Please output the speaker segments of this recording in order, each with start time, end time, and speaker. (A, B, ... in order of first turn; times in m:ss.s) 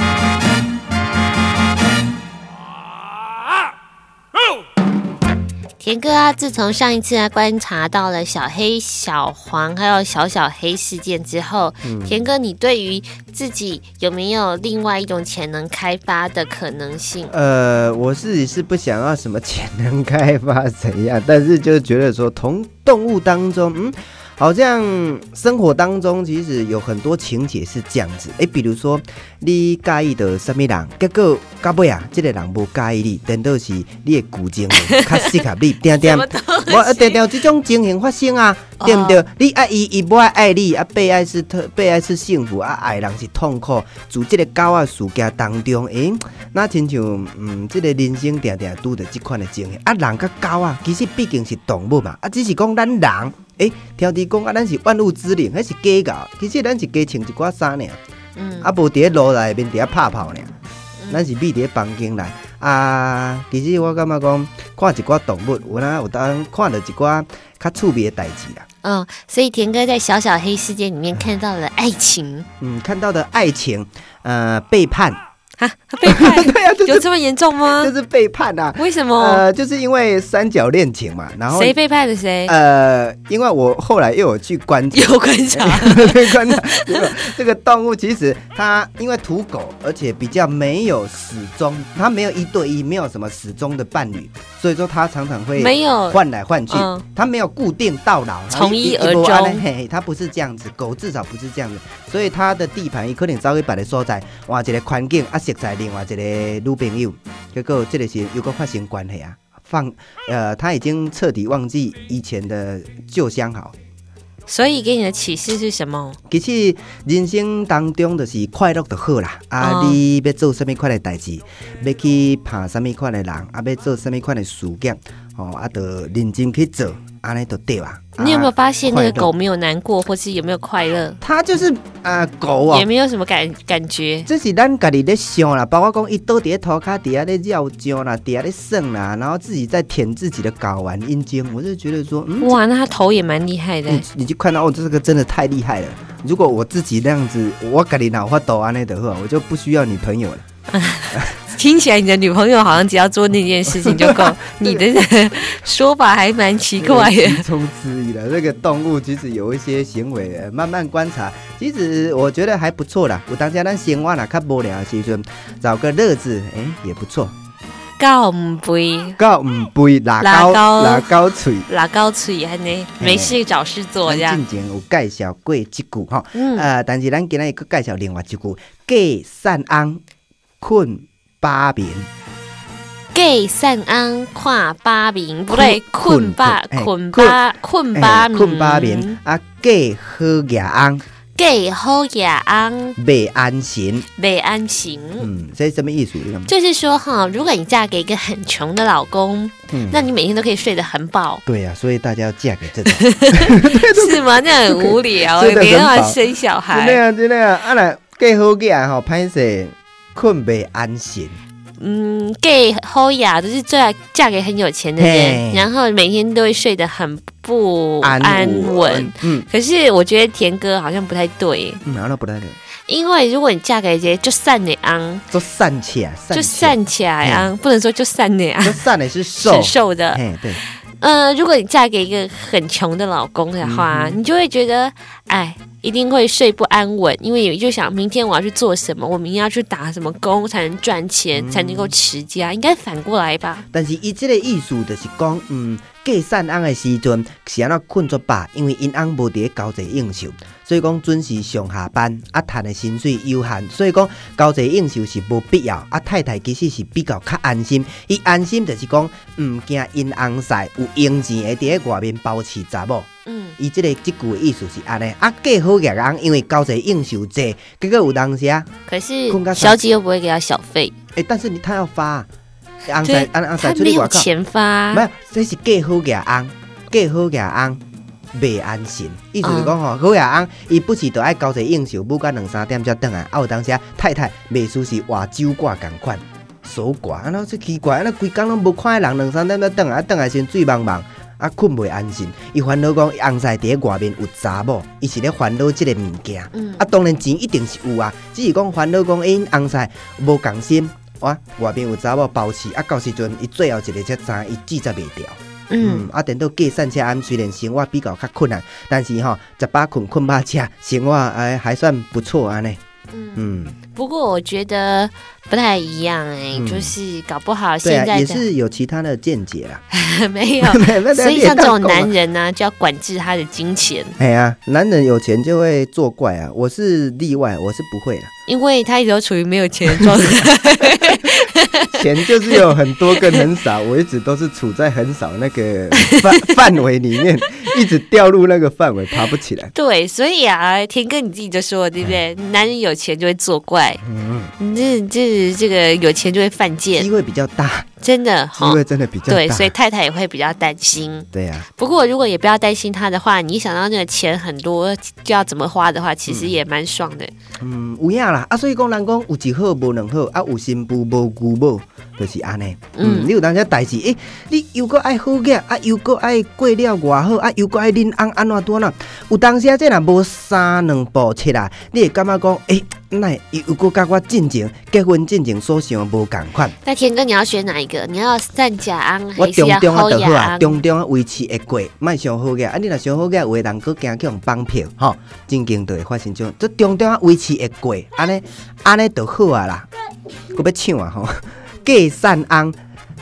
0:05.8-0:17.3 A
0:11.8-0:12.2 B
0:17.3-0:58.0 B
0:34.8-0:37.2 A
0:38.8-0:39.2 A
0:58.4-0:58.7 A
0:58.6-1:00.5 B
1:01.1-1:08.7 B
1:08.8-1:12.5 A
1:12.6-1:15.2 B
1:15.6-1:17.9 A
1:16.0-1:17.1 B
1:17.6-1:21.8 B
1:18.8-1:19.4 A
1:21.5-1:22.6 A
1:22.5-1:53.8 B
1:24.9-1:27.3 A
1:35.6-1:37.0 A
1:38.5-1:39.6 A
1:54.5-1:56.2 A
1:56.3-2:09.3 B
1:59.6-2:00.0 A
2:08.2-2:11.2 A
2:11.2-2:12.9 B
2:12.7-2:14.3 A
2:14.3-2:22.6 B
2:22.4-2:24.0 A
2:23.9-2:30.4 B
2:30.7-2:37.5 A
2:33.7-2:34.9 B
2:36.8-2:47.3 B
2:48.0-2:49.2 A
2:49.2-2:51.7 B
2:50.2-2:54.4 A
2:53.0-2:53.4 B
2:54.0-3:00.0 B
2:56.3-2:56.7 A
3:00.6-3:02.1 B
3:03.1-3:09.2 A
3:05.5-3:07.4 B
3:08.0-3:11.0 B
3:11.4-3:13.0 A
3:13.0-3:14.1 B
3:14.2-3:15.3 A
3:15.2-3:16.5 B
3:16.5-3:21.4 A
3:19.7-3:20.1 B
3:21.5-3:31.4 B
3:22.9-3:27.0 A
3:31.8-3:41.8 A
3:35.0-3:35.7 B
3:38.0-3:39.5 B
3:41.8-3:42.6 B
3:42.9-3:45.2 A
3:45.3-3:47.5 B
3:46.3-3:48.9 A
3:48.6-3:50.6 B
3:49.4-3:50.2 A
3:51.0-4:03.7 A
3:53.6-3:54.2 B
4:01.3-4:02.0 B
4:03.7-4:23.1 B
4:23.3-4:23.6 A
4:23.6-4:28.7 B
4:28.9-4:30.9 A
4:29.3-4:29.8 B
4:31.2-4:32.3 B
4:32.9-4:34.3 B
4:33.0-4:35.0 A
4:34.9-4:37.8 B
4:38.3-5:12.8 B
4:39.4-4:39.8 A
4:56.5-4:56.9 A
5:05.7-5:06.1 A
5:13.1-5:18.5 A
5:13.4-5:13.8 B
5:16.5-5:17.0 B
5:17.8-5:19.8 B
5:19.9-5:24.2 A
5:20.6-5:22.1 B
5:24.2-5:28.3 B
5:28.5-5:33.4 A
5:29.9-5:31.4 B
5:31.9-5:39.7 B
5:36.0-5:36.5 A
5:39.7-5:44.0 A
5:44.0-5:44.5 B
5:44.6-5:47.1 A
5:47.0-5:47.9 B
5:48.0-5:57.3 A
5:48.6-5:49.7 B
5:51.3-5:51.7 B
5:56.3-5:56.6 B
5:57.6-6:16.8 B
6:03.0-6:03.3 A
6:16.8-6:20.8 A
6:19.4-6:29.9 B
6:30.5-6:32.8 B